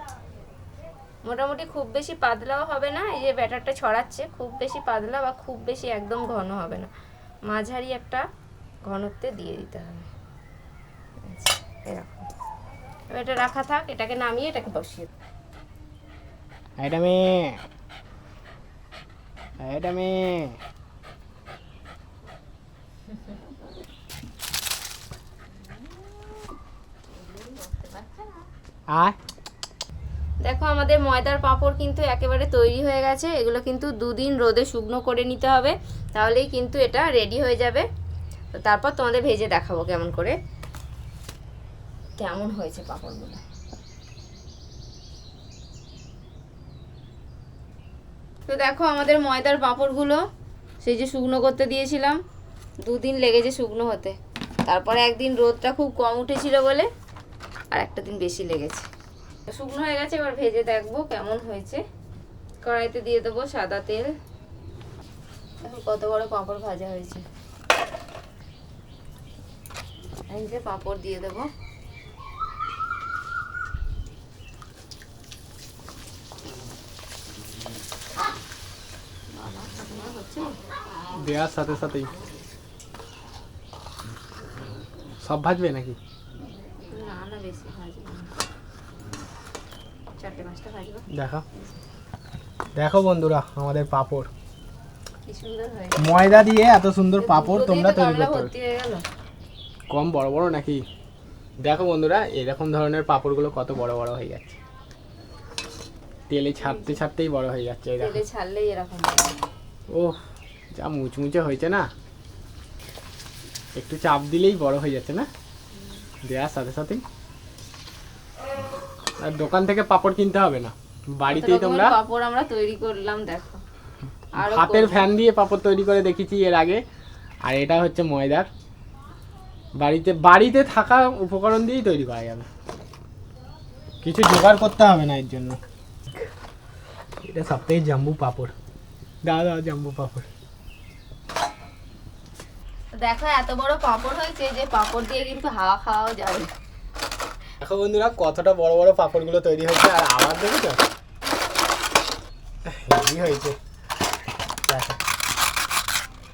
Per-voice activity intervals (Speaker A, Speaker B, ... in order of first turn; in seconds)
Speaker A: 1.2-6.9, 7.5-8.2, 8.8-10.1, 11.2-12.3, 13.1-15.1, 25.6-26.3, 27.1-28.5, 30.4-37.9, 38.5-40.4, 42.2-43.4, 48.5-50.2, 50.8-52.2, 52.8-56.9, 57.7-58.9, 59.5-61.8, 62.6-64.1, 65.6-67.2, 70.3-71.5, 79.3-80.6, 86.6-88.3, 90.2-91.7, 95.2-96.1, 97.2-99.0, 106.6-107.0, 108.0-109.3, 121.3-123.6, 124.3-125.1, 142.9-146.5
Speaker B: 16.8-17.6, 19.6-20.6, 28.9-29.1, 81.1-82.1, 85.2-86.0, 91.1-91.4, 92.8-94.3, 96.0-98.5, 99.9-100.8, 101.6-104.6, 106.3-108.2, 109.9-110.2, 110.7-111.9, 113.8-115.3, 116.2-117.0, 119.2-122.0, 124.4-126.8, 127.5-128.5, 129.8-132.5, 134.0-135.6, 137.2-138.5, 139.2-140.3, 147.6-150.8, 152.7-153.6, 154.7-155.0